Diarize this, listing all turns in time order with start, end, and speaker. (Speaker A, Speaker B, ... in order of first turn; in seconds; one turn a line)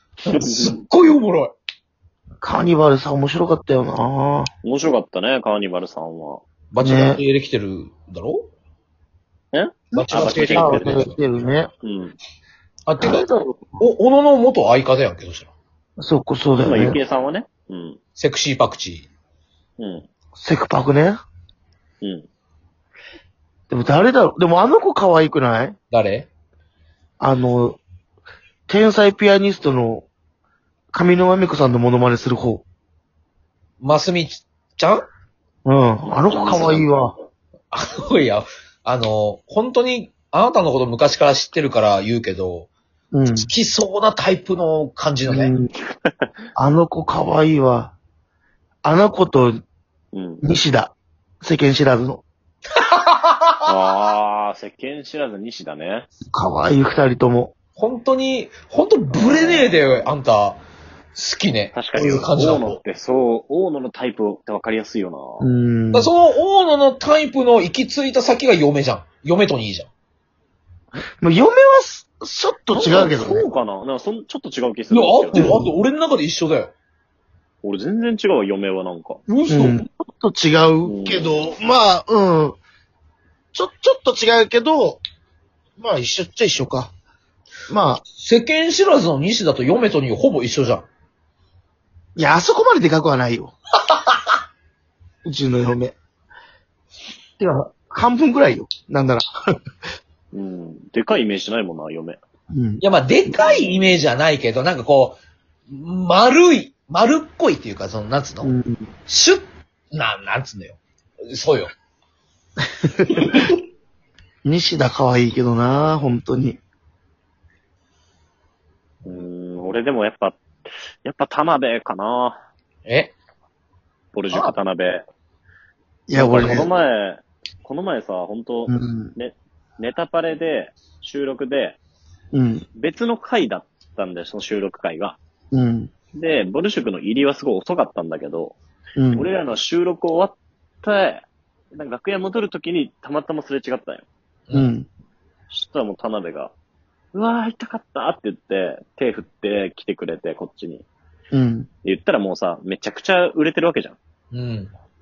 Speaker A: 0.2-1.6
Speaker B: 0.3-0.7
Speaker C: 2.4-4.5
Speaker B: 4.6-6.4
Speaker A: 6.7-8.5
Speaker C: 6.8-7.2
Speaker B: 9.5-11.1
Speaker A: 9.9-11.2
Speaker C: 10.0-11.7
Speaker B: 11.8-12.2
Speaker A: 12.9-13.2
Speaker C: 13.0-13.8
Speaker A: 13.8-15.5
Speaker C: 16.0-17.0
Speaker B: 16.6-18.0
Speaker A: 18.2-19.1
Speaker B: 19.8-20.1
Speaker C: 20.4-21.2
Speaker B: 22.0-22.3
Speaker C: 23.7-25.8
Speaker A: 25.9-26.3
Speaker C: 27.2-27.8
Speaker C: 28.7-30.1
Speaker C: 30.9-32.6
Speaker A: 33.8-35.1
Speaker C: 35.7-37.1
Speaker B: 36.1-36.9
Speaker A: 37.7-42.7
Speaker C: 43.1-43.5
Speaker A: 43.3-45.5
Speaker C: 45.3-45.7
Speaker B: 45.9-46.3
Speaker C: 46.5-48.0
Speaker C: 48.8-49.6
Speaker B: 50.1-50.5
Speaker C: 50.4-52.2
Speaker A: 52.8-53.7
Speaker B: 53.6-56.1
Speaker C: 56.3-57.5
Speaker A: 57.8-60.6
Speaker B: 59.1-60.1
Speaker A: 61.1-62.8
Speaker B: 61.7-65.5
Speaker C: 65.4-66.1
Speaker A: 65.9-69.9
Speaker C: 71.2-73.4
Speaker B: 72.7-75.5
Speaker A: 74.9-76.7
Speaker C: 75.3-75.7
Speaker B: 77.6-79.2
Speaker A: 79.3-79.8
Speaker C: 79.5-82.6
Speaker B: 80.8-81.3
Speaker C: 83.5-85.0
Speaker C: 85.8-86.9
Speaker C: 87.7-88.0
Speaker A: 88.1-90.9
Speaker C: 92.2-93.5
Speaker C: 95.2-96.0
Speaker C: 97.4-99.3
Speaker B: 100.3-102.2
Speaker C: 102.5-103.6
Speaker A: 102.8-108.5
Speaker C: 108.4-108.9
Speaker A: 109.1-111.7
Speaker C: 113.1-113.5
Speaker A: 113.1-113.5
Speaker C: 114.5-116.6
Speaker B: 119.0-122.4
Speaker A: 122.9-123.1
Speaker B: 124.1-125.0
Speaker C: 126.1-126.7
Speaker B: 126.1-131.8
Speaker C: 128.7-129.2
Speaker C: 132.3-132.7
Speaker B: 132.8-135.2
Speaker C: 135.5-135.9
Speaker B: 136.1-138.6
Speaker C: 139.0-139.3
Speaker B: 139.2-144.1
Speaker C: 144.5-144.9
Speaker B: 145.5-146.5
Speaker B: 147.1-150.9
Speaker C: 151.3-151.7
Speaker B: 151.8-154.0
Speaker A: 154.3-154.7